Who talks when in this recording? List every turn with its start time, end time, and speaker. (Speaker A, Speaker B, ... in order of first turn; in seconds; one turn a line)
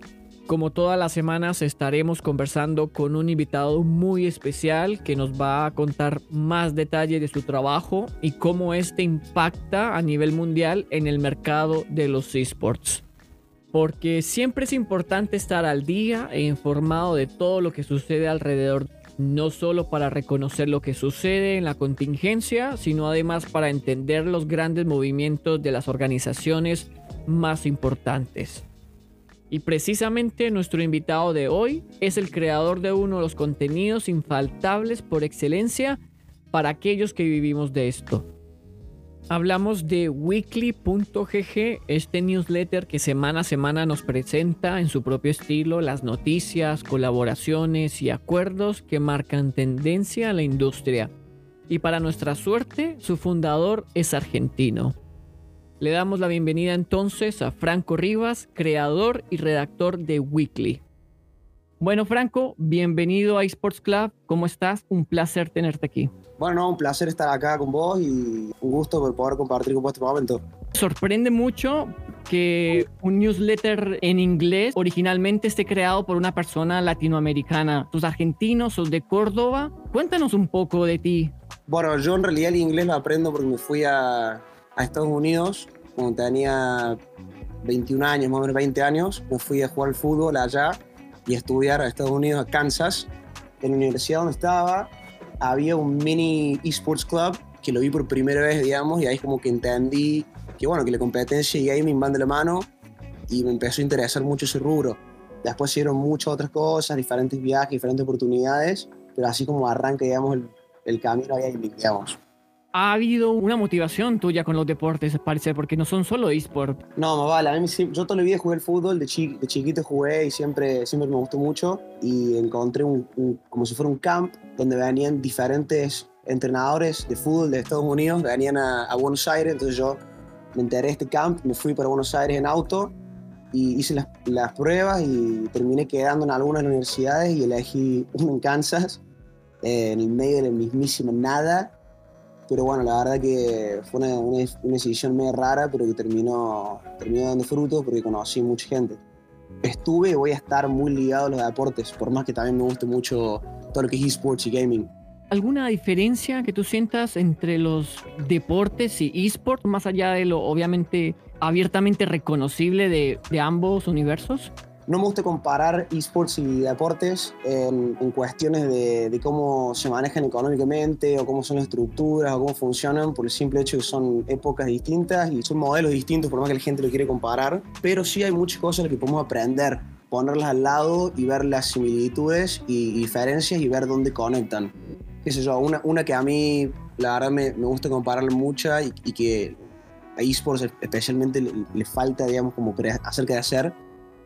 Speaker A: 0.5-13.0
Speaker A: 13.7-28.7
Speaker A: 29.5-36.0
Speaker A: 36.5-38.3
Speaker A: 39.3-51.1
Speaker A: 51.7-55.0
Speaker A: 55.8-60.8
Speaker A: 61.8-66.1
Speaker B: 66.4-70.4
Speaker A: 70.7-81.3
Speaker B: 81.7-87.0
Speaker B: 87.6-93.1
Speaker B: 93.6-102.7
Speaker B: 103.3-112.2
Speaker A: 112.7-116.8
Speaker B: 117.0-130.0
Speaker B: 130.5-132.9
Speaker B: 133.5-139.0
Speaker B: 139.6-141.8
Speaker B: 142.5-149.0
Speaker B: 149.6-154.9
Speaker A: 155.3-164.5
Speaker B: 164.9-189.6
Speaker B: 190.2-193.8